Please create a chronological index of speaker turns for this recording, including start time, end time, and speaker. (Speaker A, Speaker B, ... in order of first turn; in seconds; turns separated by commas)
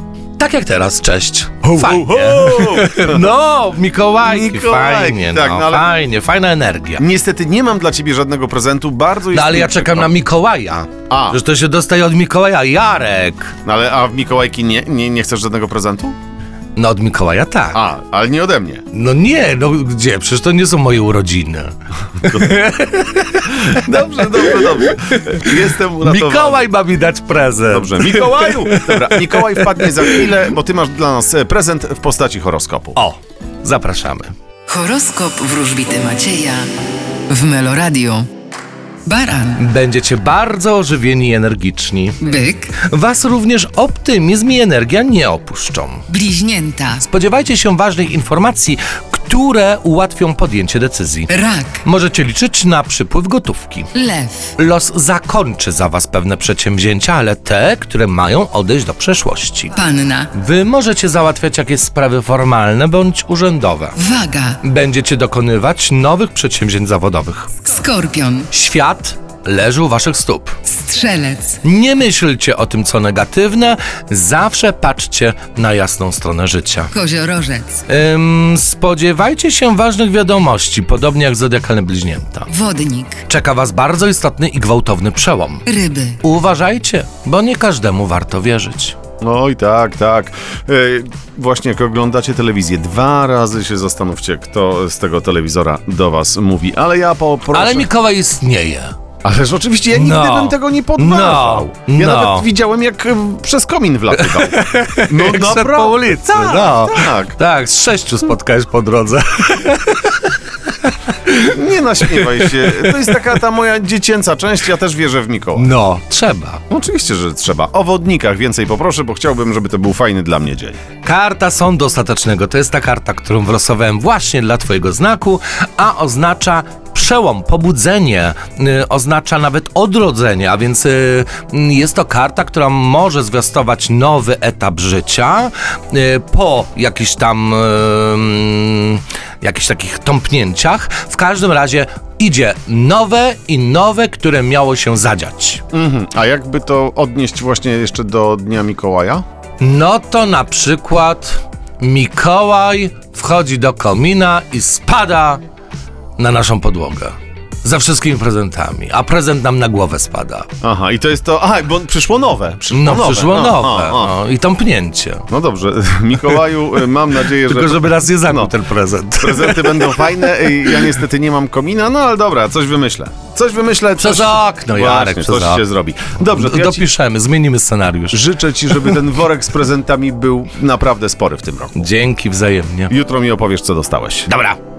Speaker A: 0.4-7.0, Speaker B: 1.7-3.3, Speaker B: 4.2-5.9, Speaker B: 7.0-10.1, Speaker A: 9.3-13.6, Speaker B: 11.1-11.4, Speaker B: 13.6-16.2, Speaker A: 16.8-17.8, Speaker B: 17.7-18.9, Speaker A: 18.9-30.5, Speaker B: 22.2-22.8, Speaker B: 23.5-26.7, Speaker B: 27.7-33.0, Speaker A: 33.0-34.3, Speaker C: 34.7-36.7, Speaker C: 37.3-38.3, Speaker C: 39.0-39.7, Speaker A: 39.6-46.1, Speaker C: 42.2-42.7, Speaker C: 46.1-47.1, Speaker A: 47.0-53.9, Speaker C: 51.3-51.8, Speaker C: 54.0-54.5, Speaker A: 54.6-59.8, Speaker C: 59.7-60.3, Speaker A: 60.3-64.0, Speaker C: 64.0-64.6, Speaker A: 64.6-67.7, Speaker C: 67.7-68.5, Speaker A: 68.5-70.6, Speaker C: 70.7-71.6, Speaker A: 71.6-76.9, Speaker C: 76.9-77.8, Speaker A: 77.9-82.5, Speaker C: 82.5-83.2, Speaker A: 83.3-85.7, Speaker C: 85.7-86.2, Speaker A: 86.2-89.0, Speaker B: 89.2-97.9, Speaker A: 97.5-98.9, Speaker B: 99.2-107.4, Speaker A: 99.9-102.5, Speaker A: 104.1-113.2, Speaker B: 111.4-115.7, Speaker A: 115.6-116.6, Speaker B: 116.7-120.8, Speaker A: 121.0-145.6, Speaker B: 145.7-149.2, Speaker A: 149.6-155.4, Speaker A: 156.2-160.5, Speaker B: 160.6-164.1, Speaker A: 162.7-165.3, Speaker B: 165.3-168.5, Speaker A: 167.3-171.0, Speaker B: 169.2-176.8, Speaker A: 174.0-175.7, Speaker A: 176.2-179.0, Speaker B: 178.1-181.9, Speaker A: 181.8-182.9, Speaker B: 182.9-184.3, Speaker A: 184.3-184.6